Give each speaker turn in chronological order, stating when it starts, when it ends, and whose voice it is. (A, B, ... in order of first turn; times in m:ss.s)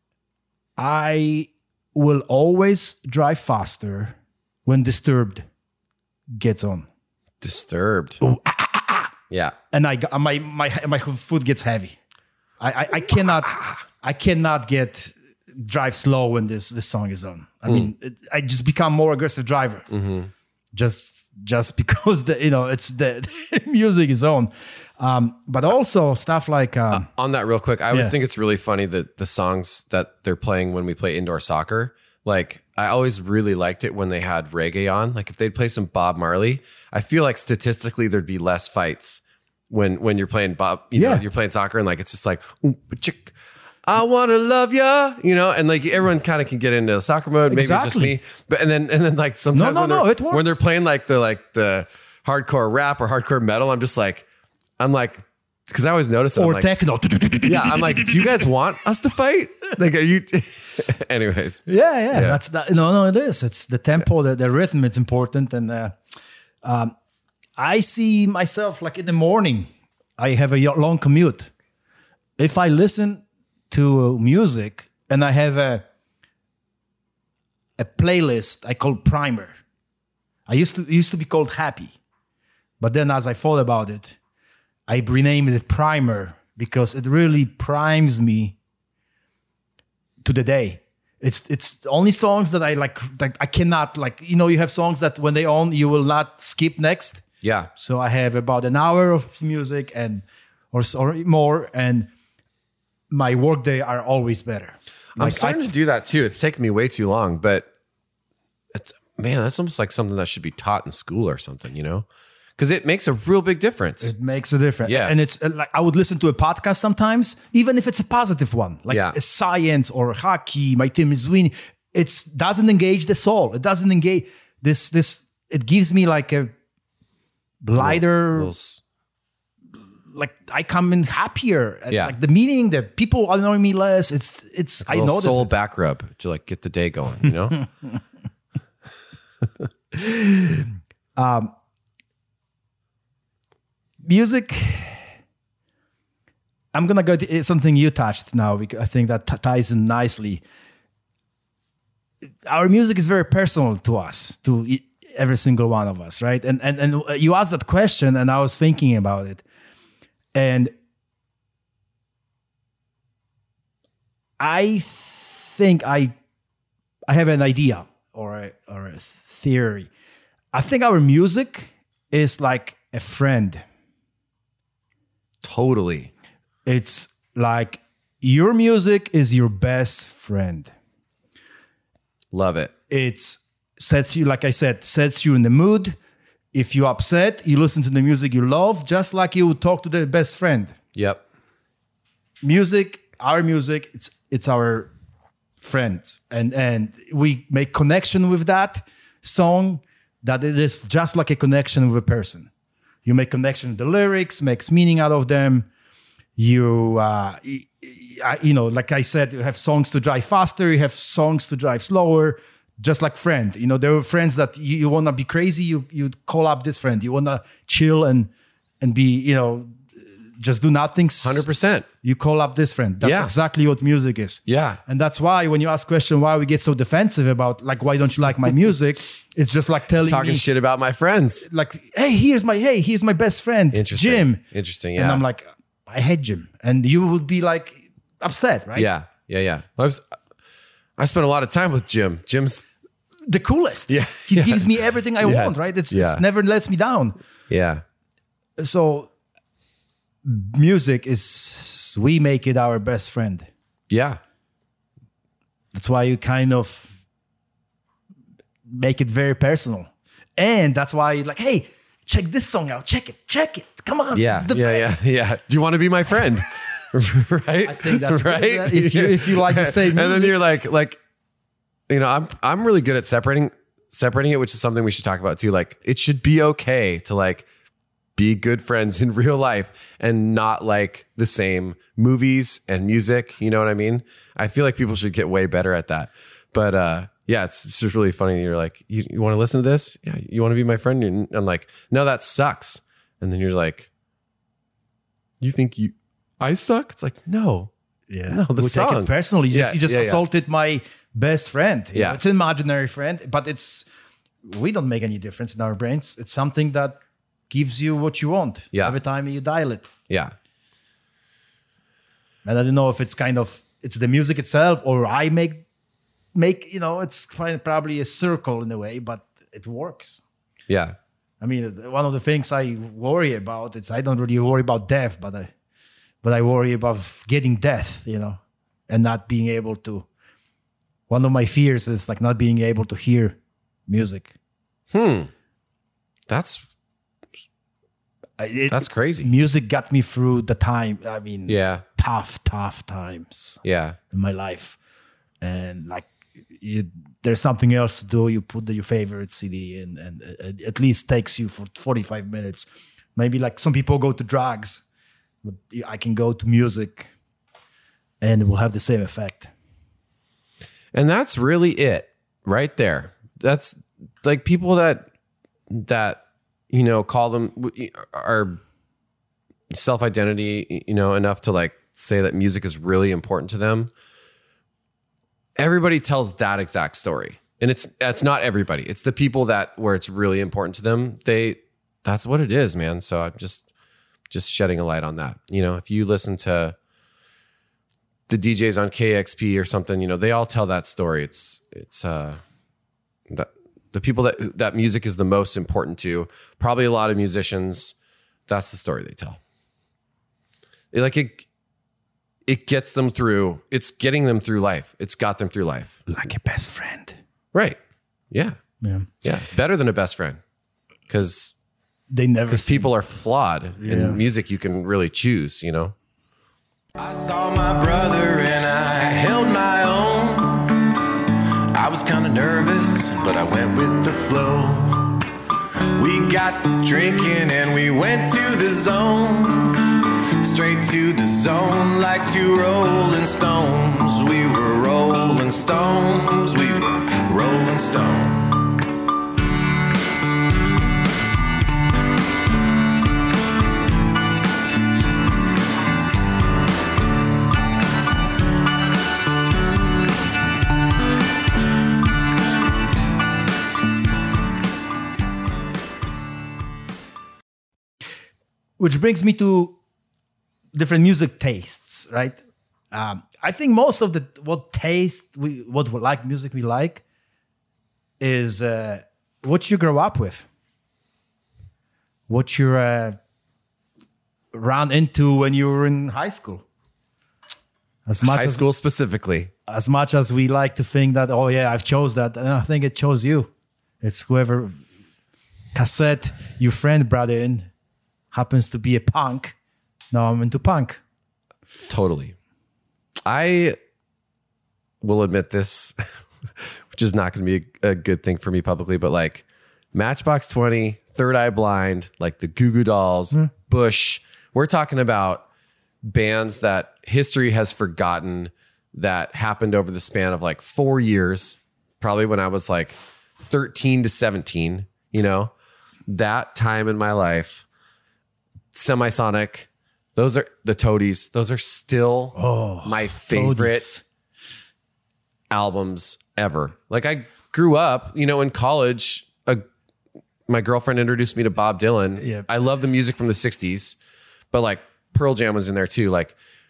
0:00.8-0:05.4 A
0:06.3-0:06.9 A
0:07.4-0:08.2 B
0:08.2-0:09.1 A
0:09.3-0:09.6 B
0:09.7-0:12.0 A
0:12.6-0:19.9 A
0:19.9-0:20.3 B
0:20.7-0:27.1 A
0:26.9-0:43.3 B
0:40.9-0:41.2 A
0:43.8-0:54.2 B
0:47.5-0:48.2 A
0:49.5-0:50.6 A
0:54.8-0:56.7 B
0:56.4-0:58.5 A
0:57.5-1:02.4 B
1:01.7-1:06.0 A
1:06.6-1:06.9 A
1:07.6-1:11.5 A
1:12.4-1:15.8 A
1:17.8-1:19.5 A
1:20.5-1:22.0 A
1:22.8-1:24.2 A
1:24.9-1:28.6 A
1:30.2-1:42.1 A
1:37.4-1:37.7 B
1:43.1-1:45.6 A
1:45.2-1:47.7 B
1:48.7-1:52.0 B
1:52.6-1:54.1 B
1:54.0-2:06.5 A
1:54.8-1:55.1 B
1:58.9-1:59.1 B
2:07.6-2:08.5 A
2:07.8-2:08.8 B
2:10.1-2:15.5 A
2:14.8-2:17.6 B
2:20.0-2:21.5 A
2:24.0-2:25.1 A
2:26.7-2:30.4 A
2:32.5-2:39.4 A
2:40.3-2:40.7 A
2:44.4-2:46.1 A
2:47.1-2:49.9 A
2:50.5-2:53.6 A
2:55.4-2:56.1 B
2:56.6-3:00.7 A
3:02.3-3:02.7 B
3:02.9-3:06.0 A
3:06.5-3:10.8 A
3:10.9-3:11.2 B
3:12.4-3:14.9 A
3:15.6-3:22.5 A
3:23.0-3:25.7 A
3:26.4-3:38.3 A
3:38.8-3:41.4 A
3:41.2-3:41.9 B
3:42.0-3:50.4 A
3:43.0-3:43.3 B
3:44.5-3:44.8 B
3:50.0-3:51.5 B
3:51.4-3:54.4 A
3:53.7-3:55.2 B
3:55.0-3:58.9 A
3:58.8-4:00.0 B
4:01.0-4:02.7 B
4:03.3-4:07.2 A
4:03.9-4:06.2 B
4:07.5-4:07.8 B
4:08.6-4:09.1 A
4:10.2-4:13.5 A
4:13.9-4:14.2 B
4:15.7-4:17.0 A
4:18.7-4:25.0 A
4:24.1-4:31.0 B
4:27.6-4:30.4 A
4:31.9-4:37.5 B
4:38.2-4:53.9 B
4:55.4-4:57.7 B
4:58.1-5:03.9 A
4:58.3-5:00.2 B
5:01.9-5:02.2 B
5:04.4-5:07.0 A
5:07.5-5:09.9 A
5:10.1-5:10.3 B
5:12.4-5:15.6 A
5:16.3-5:20.2 A
5:20.7-5:21.0 B
5:21.4-5:25.5 A
5:26.2-5:30.0 A
5:31.1-5:34.3 A
5:34.9-5:35.3 B
5:36.3-5:36.6 B
5:38.4-5:44.8 A
5:38.7-5:39.3 B
5:41.5-5:41.8 B
5:43.6-5:44.0 B
5:45.4-5:54.8 A
5:55.4-5:57.1 A
5:58.2-5:59.5 A
6:00.9-6:05.1 B
6:05.7-6:08.6 B
6:09.7-6:13.9 B
6:15.6-6:23.6 B
6:24.3-6:26.8 B
6:28.3-6:32.4 B
6:33.3-6:37.9 B
6:38.5-6:39.4 B
6:40.9-6:41.4 B
6:42.4-6:46.0 B
6:46.1-6:47.2 A
6:47.5-6:47.8 B
6:48.3-6:48.6 B
6:48.8-6:49.1 A
6:49.2-6:50.4 B
6:51.1-6:51.5 B
6:52.1-6:52.9 A
6:52.5-6:55.9 B
6:53.8-6:54.2 A
6:57.0-7:00.9 C
7:01.7-7:05.2 C
7:05.9-7:18.7 C
7:38.8-7:39.8 A
7:40.7-7:42.4 A
7:42.9-7:47.0 A
7:48.2-7:50.4 A
7:52.3-7:53.2 A
7:54.5-7:56.6 A
7:58.1-7:58.6 A
7:58.2-7:59.5 B
7:59.7-8:03.5 A
8:04.0-8:04.8 A
8:05.7-8:07.7 A
8:08.3-8:09.6 A
8:10.1-8:11.0 A
8:11.9-8:12.4 B
8:13.2-8:13.8 B
8:15.0-8:25.4 B
8:26.0-8:35.5 B
8:36.1-8:37.6 B
8:38.7-8:43.9 B
8:42.4-8:44.0 A
8:45.5-8:49.6 B
8:50.5-8:54.0 B
8:52.2-8:52.5 A
8:54.5-8:56.3 B